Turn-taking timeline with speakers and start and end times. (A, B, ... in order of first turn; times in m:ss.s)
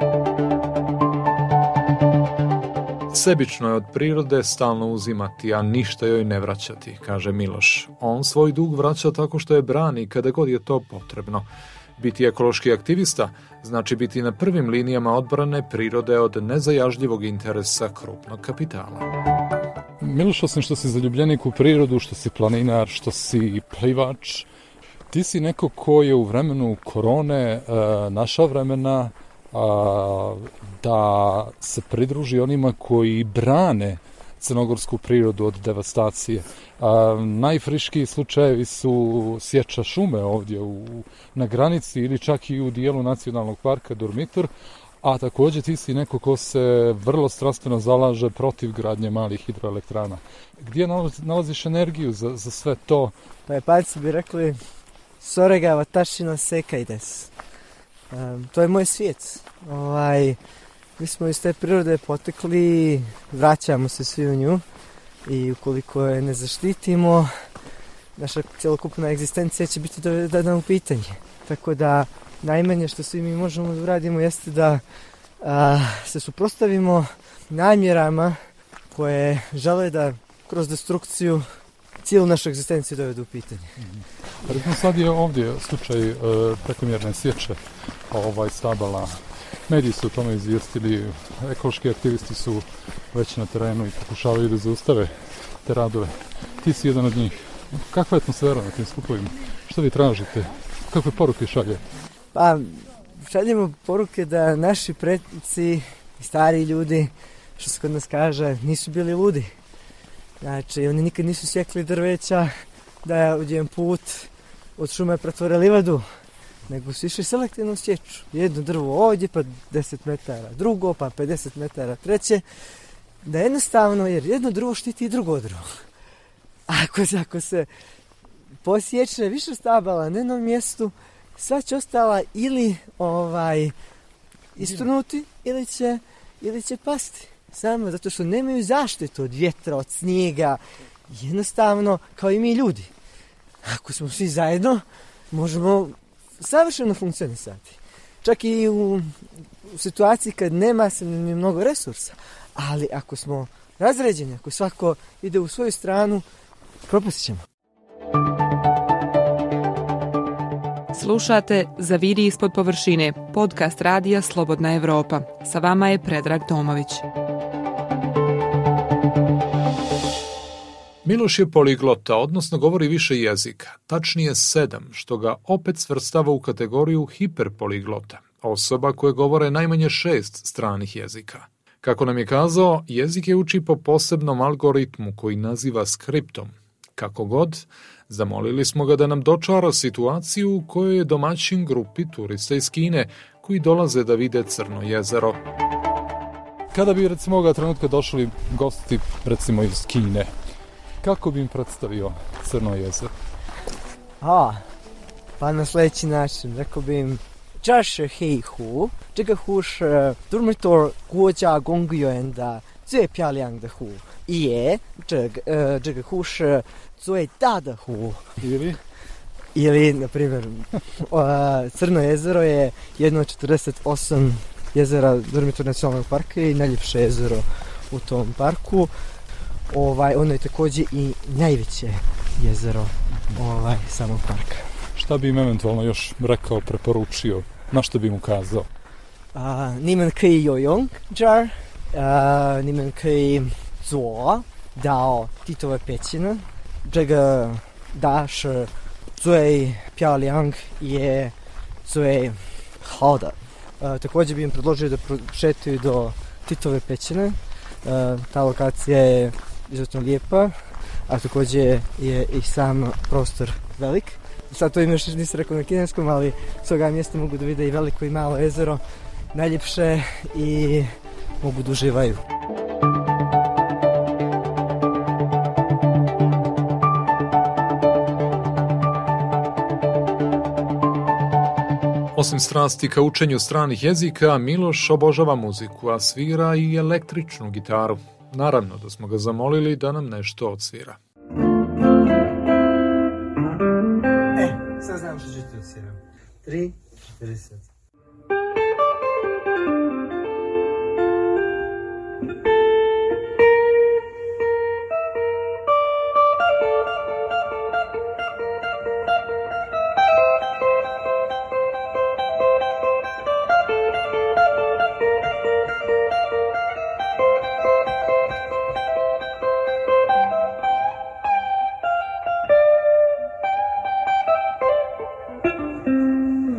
0:03.1-0:11.5 A
0:12.0-0:19.1 A
0:20.0-0:24.5 B
0:25.1-0:44.5 B
0:45.0-0:53.1 B
0:53.5-0:54.6 C
0:55.2-0:57.3 C
0:58.1-1:00.4 C
1:01.0-1:04.6 C
1:05.3-1:07.3 C
1:08.2-1:14.8 C
1:15.4-1:18.4 C
1:18.9-1:21.4 C
1:22.0-1:23.8 C
1:23.9-1:41.8 B
1:42.3-1:49.5 C
1:50.4-1:52.5 C
1:53.0-1:56.1 C
1:56.7-2:02.4 C
2:03.2-2:05.8 C
2:06.7-2:07.7 C
2:08.6-2:13.8 C
2:14.6-2:22.9 C
2:23.6-2:36.2 C
2:36.9-2:37.4 C
2:40.9-2:47.0 D
2:51.0-3:15.4 A
3:16.7-3:20.3 B
3:21.0-3:23.1 B
3:24.2-3:24.6 C
3:25.4-3:38.3 C
3:38.4-3:38.8 B
3:39.6-3:48.9 C
3:49.7-3:54.6 C
3:55.0-3:58.7 B
3:59.3-4:20.6 C
4:21.1-4:28.8 C
4:29.3-4:32.2 C
4:42.2-4:51.0 A
4:54.4-4:57.7 C